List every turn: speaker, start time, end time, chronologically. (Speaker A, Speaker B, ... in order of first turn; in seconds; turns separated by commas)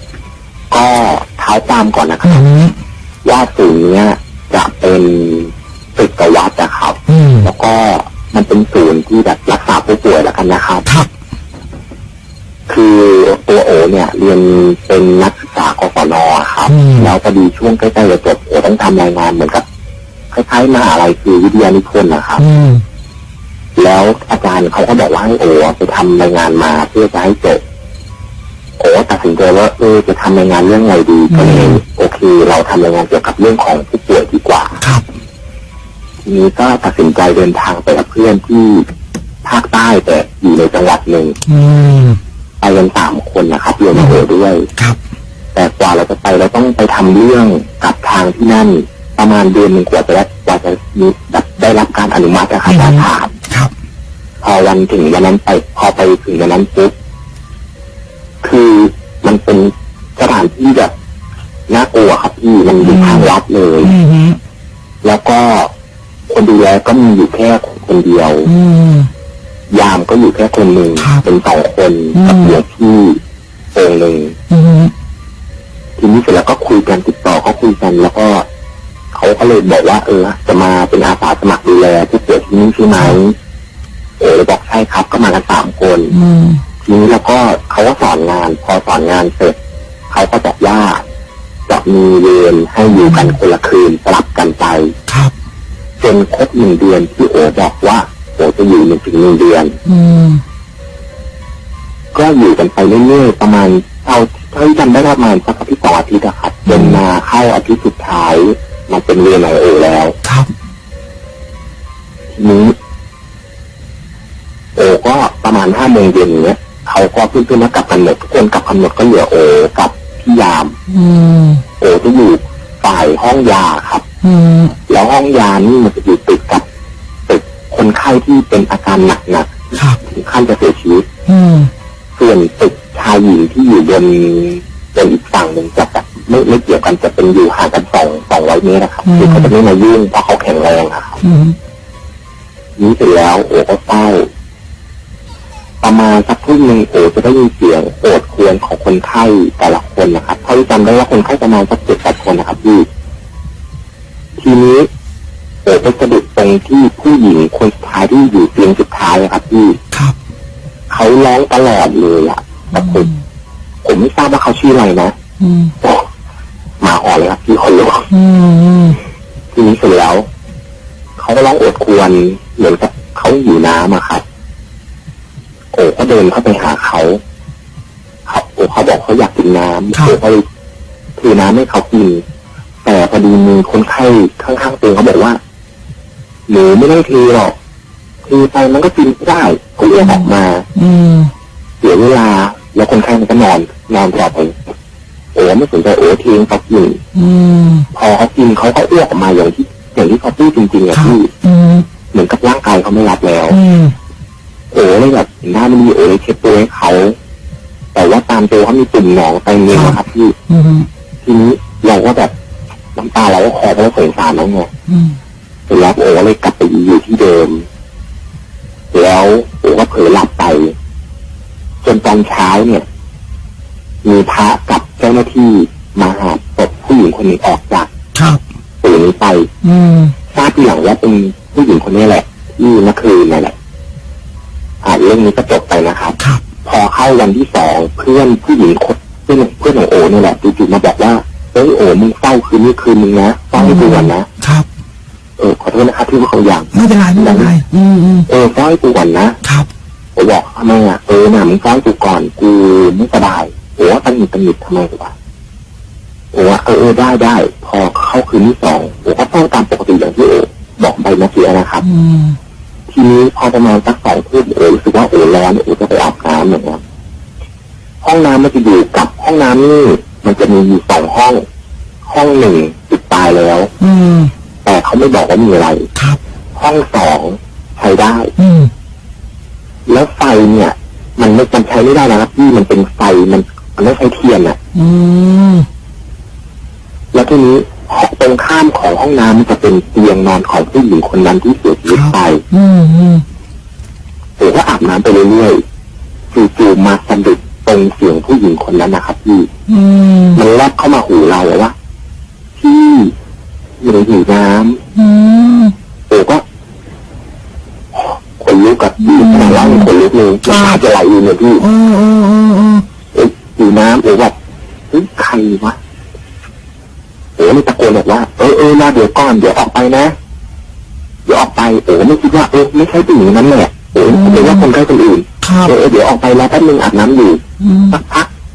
Speaker A: 0.7-2.5, Speaker B: 2.2-2.8, Speaker A: 3.2-10.9, Speaker B: 7.1-7.5, Speaker A: 12.7-19.6, Speaker B: 16.7-17.1, Speaker A: 20.3-22.4, Speaker B: 22.4-22.8, Speaker A: 23.8-27.6, Speaker A: 28.8-34.8, Speaker B: 31.3-31.8, Speaker A: 36.2-38.9, Speaker A: 39.4-41.4, Speaker B: 41.5-42.2, Speaker A: 42.6-44.7, Speaker B: 43.9-44.2, Speaker A: 45.5-53.3, Speaker B: 52.7-53.7, Speaker A: 54.4-57.0, Speaker A: 58.4-60.9, Speaker A: 61.7-63.9, Speaker B: 62.8-64.4, Speaker A: 65.0-65.7, Speaker A: 66.3-68.5, Speaker B: 68.5-69.1, Speaker A: 69.7-73.2, Speaker B: 71.0-71.2, Speaker B: 72.1-72.6, Speaker A: 73.7-74.4, Speaker B: 74.5-74.9, Speaker A: 76.0-78.5, Speaker A: 79.1-83.4, Speaker A: 84.2-86.2, Speaker B: 86.1-86.6, Speaker A: 86.8-89.6, Speaker A: 90.1-91.0, Speaker A: 91.7-95.0, Speaker B: 92.9-93.4, Speaker B: 95.1-95.3, Speaker A: 96.0-99.8, Speaker B: 99.8-100.4, Speaker A: 102.1-110.2, Speaker B: 106.7-107.0, Speaker B: 110.2-110.5, Speaker A: 112.3-112.8, Speaker A: 114.8-120.8, Speaker B: 120.9-121.6, Speaker A: 121.8-124.0, Speaker B: 124.2-124.8, Speaker A: 124.9-126.7, Speaker A: 127.3-131.1, Speaker B: 129.7-130.0, Speaker B: 131.3-131.7, Speaker A: 132.2-141.2, Speaker B: 139.0-139.5, Speaker B: 141.2-141.6, Speaker A: 142.8-144.3, Speaker A: 145.8-152.9, Speaker A: 154.4-154.9, Speaker A: 155.7-159.8, Speaker A: 160.9-163.1, Speaker B: 162.7-163.1, Speaker A: 163.8-165.1, Speaker B: 165.4-165.8, Speaker A: 166.8-168.1, Speaker B: 168.1-169.0, Speaker A: 169.5-170.3, Speaker A: 171.2-174.2, Speaker A: 175.7-177.2, Speaker A: 178.3-180.4, Speaker A: 181.2-182.2, Speaker A: 182.8-185.4, Speaker A: 186.5-187.6, Speaker A: 188.3-190.7, Speaker B: 190.0-191.3, Speaker A: 191.8-194.6, Speaker A: 195.3-197.0, Speaker B: 197.1-197.9, Speaker A: 197.9-201.3, Speaker B: 200.9-201.9, Speaker A: 202.1-203.6, Speaker B: 203.5-204.0, Speaker A: 204.7-207.2, Speaker A: 207.9-210.4, Speaker B: 209.7-210.9, Speaker A: 211.2-212.3, Speaker A: 213.0-214.7, Speaker B: 214.9-215.2, Speaker A: 215.7-217.7, Speaker A: 218.9-220.8, Speaker A: 221.8-222.9, Speaker A: 224.0-227.9, Speaker B: 228.2-228.4, Speaker A: 228.8-229.5, Speaker B: 229.6-230.2, Speaker A: 230.3-233.6, Speaker A: 234.8-244.3, Speaker B: 243.6-244.7, Speaker A: 245.4-247.5, Speaker B: 246.7-248.3, Speaker A: 248.3-249.4, Speaker B: 249.4-249.7, Speaker A: 250.2-255.1, Speaker A: 256.3-261.9, Speaker B: 261.8-262.4, Speaker A: 262.9-266.8, Speaker A: 268.0-271.4, Speaker A: 272.1-273.7, Speaker B: 273.8-274.3, Speaker A: 274.6-275.9, Speaker B: 275.9-276.2, Speaker A: 276.6-278.3, Speaker B: 278.4-278.7, Speaker A: 279.9-284.6, Speaker B: 284.7-285.7, Speaker A: 287.1-292.4, Speaker B: 291.9-293.2, Speaker A: 294.4-295.6, Speaker A: 296.3-299.5, Speaker B: 299.7-300.4, Speaker A: 300.4-301.8, Speaker A: 302.6-303.1, Speaker A: 303.8-304.8, Speaker B: 304.9-305.8, Speaker A: 306.1-306.4, Speaker A: 307.9-311.6, Speaker B: 309.0-309.9, Speaker B: 310.4-310.8, Speaker B: 311.6-312.9, Speaker A: 313.1-314.4, Speaker A: 314.9-315.8, Speaker A: 317.4-320.1, Speaker A: 321.3-328.3, Speaker B: 324.0-324.7, Speaker B: 325.4-325.7, Speaker B: 327.6-328.0